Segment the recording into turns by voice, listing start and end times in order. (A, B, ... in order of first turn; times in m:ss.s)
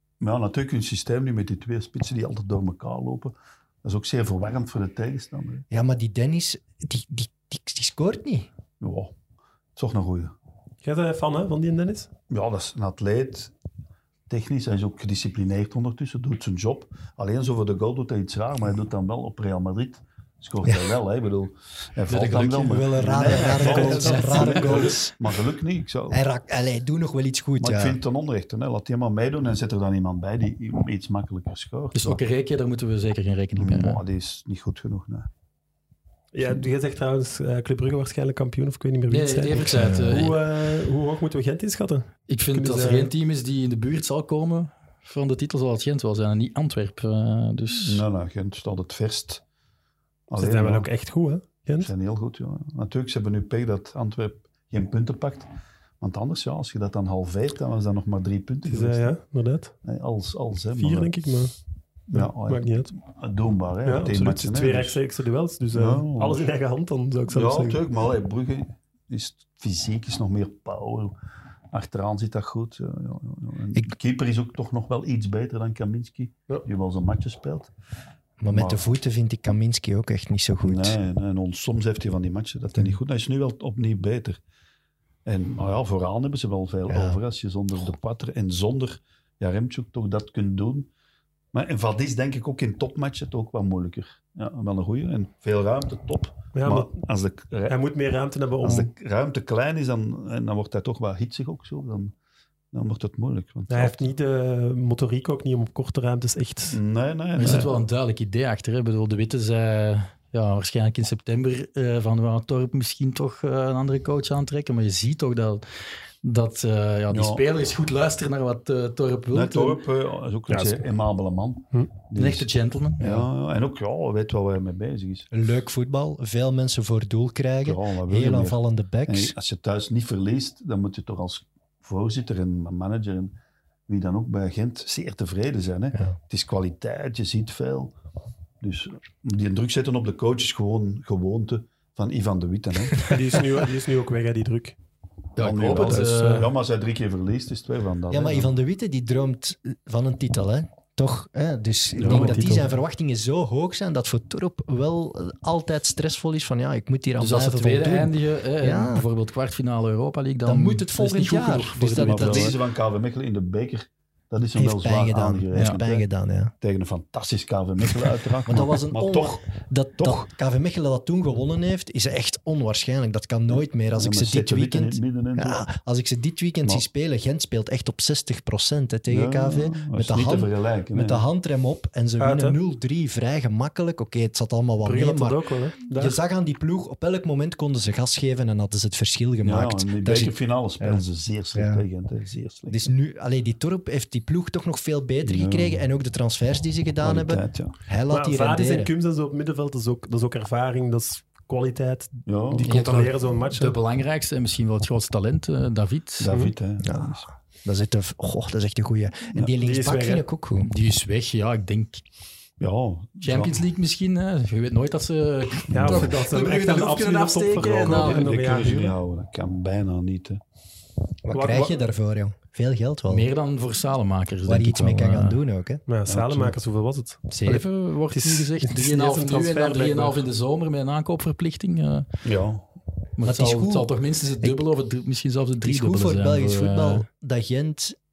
0:00.2-0:05.6 A
0:05.7-0:08.5 B
0:08.8-0:09.1 A
0:09.8-0:10.3 A
0:10.8-0:12.1 C
0:12.3-0:13.5 A
0:14.3-0:26.2 A
0:20.6-0:21.0 B
0:22.1-0:24.6 D
0:22.6-0:25.2 B
0:23.4-0:24.9 C
0:26.1-0:28.0 B
0:27.6-0:32.2 A
0:31.9-0:34.0 D
0:33.6-0:35.3 A
0:36.3-0:43.1 C
0:39.1-0:40.4 D
0:39.6-0:40.2 B
0:42.3-0:48.0 D
0:47.8-0:49.4 A
0:50.3-0:50.9 A
0:50.4-0:51.9 C
0:51.8-0:55.5 A
0:56.0-0:59.1 A
0:58.7-0:59.8 C
0:59.8-1:01.1 A
1:00.8-1:01.6 C
1:02.1-1:02.9 C
1:02.1-1:05.0 A
1:03.8-1:07.8 C
1:05.7-1:06.5 A
1:07.3-1:11.1 A
1:11.7-1:17.7 A
1:18.4-1:21.0 B
1:18.5-1:18.9 A
1:20.6-1:24.4 A
1:25.2-1:30.9 A
1:26.9-1:27.2 B
1:31.5-1:37.8 A
1:36.6-1:36.9 C
1:37.7-1:38.9 C
1:38.6-1:42.1 A
1:42.7-1:44.1 A
1:43.7-1:46.8 C
1:46.7-1:47.7 A
1:47.4-1:55.6 D
1:56.2-1:59.8 D
1:57.1-1:57.4 A
1:59.3-2:05.3 A
2:00.5-2:00.8 C
2:02.2-2:03.3 D
2:05.3-2:09.4 B
2:07.6-2:13.4 A
2:13.9-2:18.0 A
2:18.6-2:23.2 A
2:23.0-2:24.8 C
2:25.4-2:26.5 D
2:25.4-2:28.5 A
2:28.1-2:39.0 B
2:32.0-2:32.4 A
2:32.0-2:32.4 D
2:32.0-2:32.7 C
2:37.2-2:42.6 D
2:40.4-2:42.6 B
2:42.0-2:46.1 A
2:44.5-2:46.5 B
2:46.6-2:49.5 A
2:48.5-3:11.8 B
2:54.0-2:55.7 A
2:59.1-3:01.2 A
3:02.2-3:02.6 C
3:04.8-3:06.2 C
3:09.4-3:12.8 A
3:12.7-3:18.9 B
3:15.2-3:15.8 A
3:17.0-3:17.8 A
3:18.1-3:23.8 C
3:22.3-3:22.7 A
3:22.7-3:26.3 D
3:26.2-3:27.3 A
3:26.3-3:26.5 C
3:26.8-3:30.7 B
3:29.6-3:30.2 C
3:30.6-3:32.0 D
3:32.6-3:33.6 A
3:33.2-3:38.3 D
3:35.7-3:36.1 A
3:35.7-3:39.0 C
3:37.8-3:40.4 A
3:41.2-3:43.3 B
3:41.3-3:41.8 C
3:43.1-3:45.4 D
3:44.5-3:45.8 B
3:45.9-3:50.2 C
3:46.1-3:46.6 A
3:47.3-3:52.1 D
3:52.2-3:52.7 A
3:53.2-3:57.1 D
3:53.2-3:54.6 B
3:55.6-3:58.0 B